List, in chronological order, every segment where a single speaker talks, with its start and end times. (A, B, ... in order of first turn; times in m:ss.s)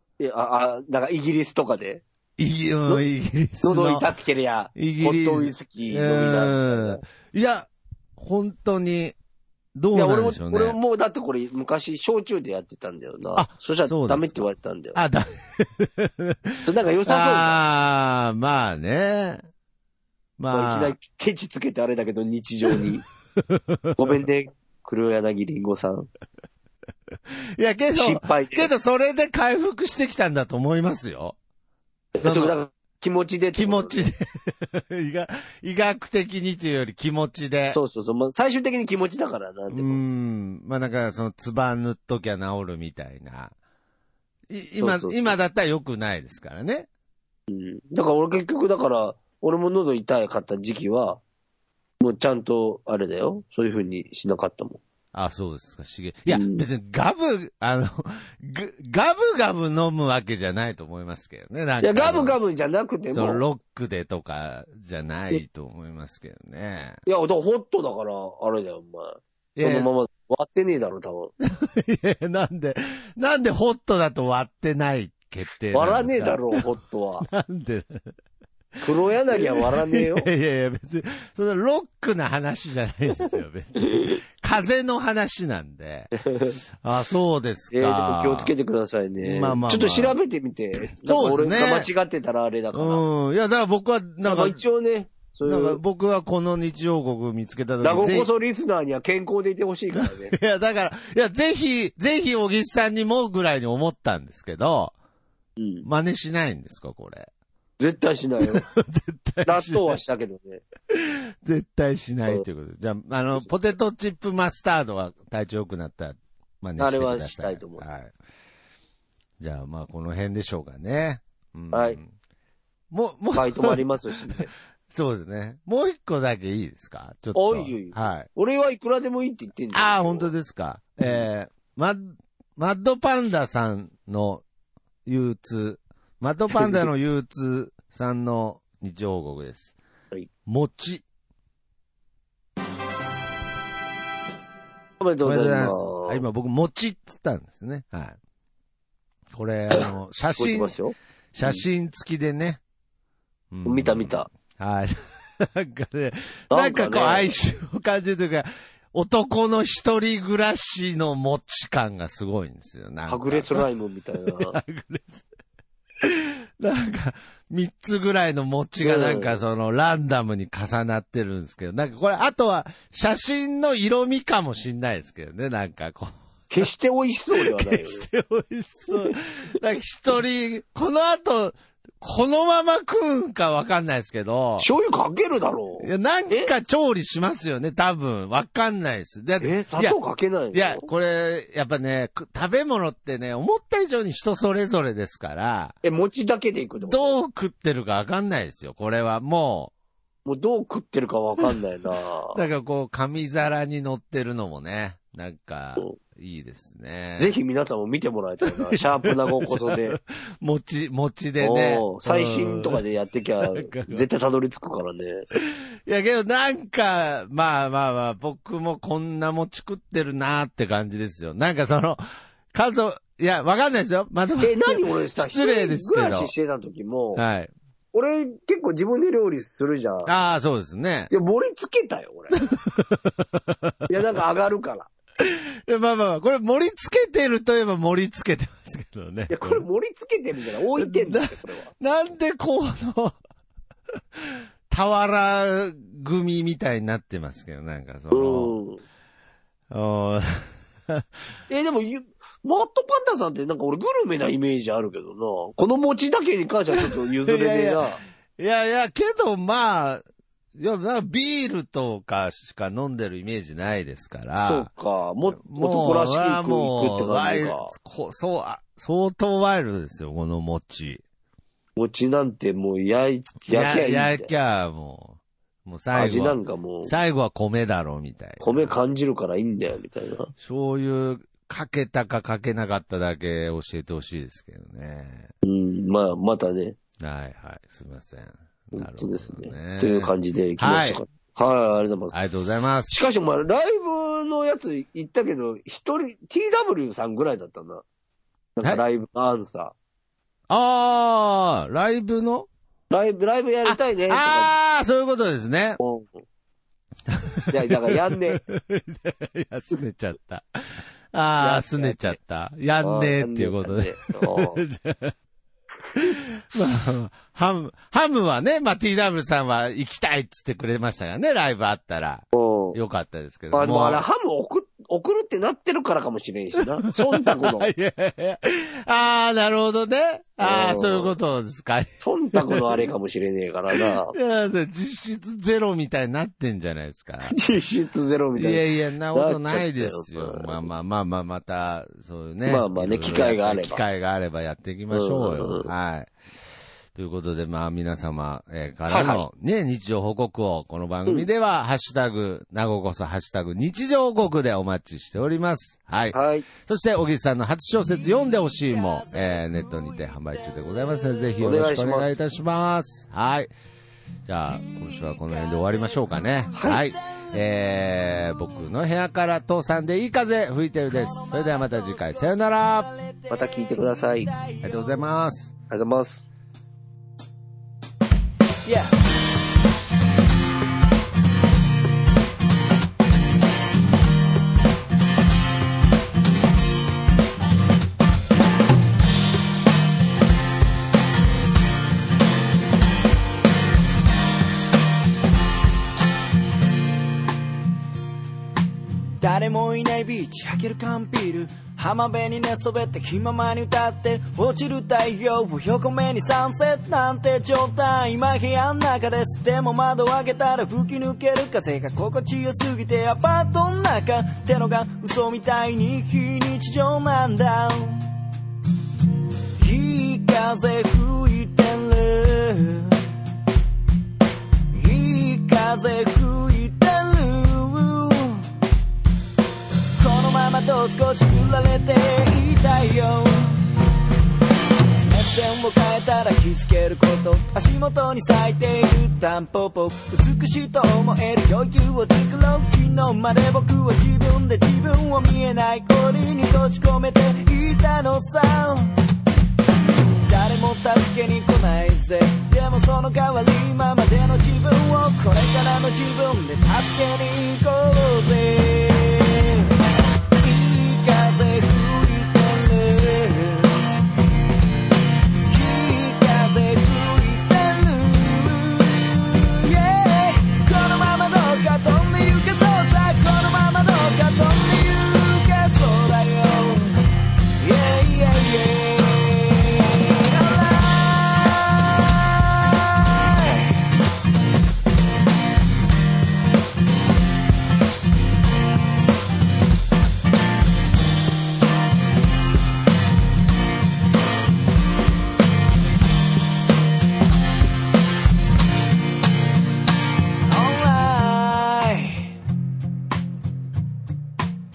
0:00.2-0:02.0 A
0:02.4-0:04.1 B
0:03.6-0:07.0 A
0:04.8-0:09.1 B
0:09.7-0:10.8 B
0:09.9-0:15.0 A
0:13.3-0:19.4 B
0:16.6-0:17.6 A
0:20.4-0:21.0 B
0:20.5-0:23.0 A
0:23.4-0:24.2 B
0:24.0-0:26.1 A
0:27.6-0:31.4 B
0:27.9-0:28.7 A
0:32.1-0:34.1 A
0:32.2-0:32.6 B
0:33.5-0:37.8 B
0:37.7-0:40.0 A
0:39.7-0:43.5 B
0:44.5-0:46.9 B
0:44.8-0:45.3 A
0:47.5-0:51.2 A
0:52.0-0:54.8 A
0:55.1-1:02.4 B
0:56.3-0:56.6 A
1:01.8-1:03.4 A
1:03.1-1:07.0 B
1:07.0-1:11.3 A
1:09.6-1:09.9 B
1:11.4-1:16.6 B
1:15.7-1:17.3 A
1:17.2-1:18.1 B
1:18.8-1:20.3 A
1:19.3-1:26.1 B
1:23.8-1:24.2 A
1:26.3-1:26.6 A
1:26.8-1:28.5 B
1:27.7-1:33.0 A
1:29.2-1:30.2 B
1:30.9-1:31.9 B
1:32.7-1:34.6 B
1:34.2-1:35.8 A
1:35.4-1:38.3 B
1:37.8-1:40.3 A
1:40.0-1:44.9 B
1:45.6-1:45.8 A
1:45.8-1:47.3 B
1:47.8-1:48.6 A
1:48.5-1:50.0 B
1:49.4-1:50.6 A
1:50.9-1:58.1 B
1:56.8-1:57.8 A
1:59.4-2:02.1 B
2:01.7-2:02.0 A
2:02.9-2:04.3 B
2:03.3-2:04.5 A
2:04.9-2:08.3 B
2:07.3-2:10.3 A
2:09.7-2:14.4 B
2:15.0-2:19.8 B
2:16.5-2:16.8 A
2:20.4-2:21.0 B
2:25.0-2:26.2 A
2:25.2-2:28.2 B
2:29.3-2:30.7 B
2:30.4-2:31.6 A
2:31.3-2:32.6 B
2:33.5-2:43.6 B
2:33.6-2:34.3 A
2:36.5-2:37.3 A
2:43.1-2:44.6 A
2:44.3-2:45.2 B
2:46.0-2:56.6 B
2:48.8-2:49.4 A
2:56.5-2:58.0 A
2:57.3-3:04.7 B
2:58.9-2:59.2 A
3:04.6-3:06.5 A
3:05.8-3:10.0 B
3:09.4-3:10.9 A
3:10.5-3:15.8 B
3:15.8-3:17.2 A
3:16.8-3:19.7 B
3:20.2-3:22.4 A
3:22.3-3:27.3 B
3:27.2-3:30.0 A
3:28.4-3:32.8 B
3:31.4-3:35.2 A
3:33.5-3:34.0 B
3:35.3-3:42.0 B
3:42.5-3:46.3 B
3:44.4-3:47.2 A
3:47.2-3:47.5 B
3:47.9-3:50.1 A
3:50.0-3:51.1 B
3:51.1-3:52.4 A
3:52.4-3:54.0 B
3:53.9-3:54.9 A
3:55.2-3:59.6 B
3:59.3-4:01.7 A
4:00.8-4:03.2 B
4:04.1-4:08.6 B
4:08.1-4:08.8 A
4:09.7-4:11.0 B
4:11.5-4:18.0 A
4:16.7-4:17.8 B
4:18.4-4:20.0 B
4:20.5-4:24.7 B
4:24.4-4:27.7 A
4:25.3-4:31.0 B
4:31.8-4:34.3 A
4:33.4-4:38.8 B
4:35.9-4:36.9 A
4:38.4-4:40.3 A
4:40.4-4:45.3 B
4:45.4-4:46.8 A
4:47.0-4:51.0 B
4:48.7-4:52.2 A
4:52.1-4:52.9 B
4:52.9-4:57.8 A
4:58.6-4:59.7 A
5:00.5-5:02.5 B
5:02.9-5:04.5 A
5:03.6-5:05.8 B
5:05.8-5:06.2 A
5:07.1-5:15.1 B
5:07.5-5:08.4 A
5:11.4-5:12.2 A
5:12.8-5:14.6 A
5:15.9-5:24.0 B
5:22.3-5:22.8 A
5:23.5-5:27.7 A
5:26.6-5:32.9 B
5:30.4-5:31.2 A
5:32.0-5:34.2 A
5:33.7-5:37.4 B
5:37.2-5:40.6 A
5:38.4-5:46.1 B
5:42.4-5:43.8 A
5:44.9-5:45.7 A
5:46.9-6:03.5 B
5:48.9-5:49.2 A
5:56.1-5:56.5 A
5:58.0-6:01.4 C
6:01.4-6:02.2 A
6:04.2-6:12.9 B
6:04.5-6:07.4 C
6:06.5-6:06.8 A
6:10.9-6:15.0 C
6:13.3-6:14.3 A
6:14.6-6:15.5 B
6:15.7-6:16.2 A
6:18.6-6:18.9 C
6:39.2-6:58.0 C
6:59.6-7:03.0 C
7:04.7-7:08.5 C
7:10.0-7:13.6 C
7:15.0-7:28.9 C
7:30.2-7:39.7 C
7:40.4-7:43.9 C
7:45.5-7:57.0 C
7:57.6-8:03.7 C
8:20.5-8:22.4 C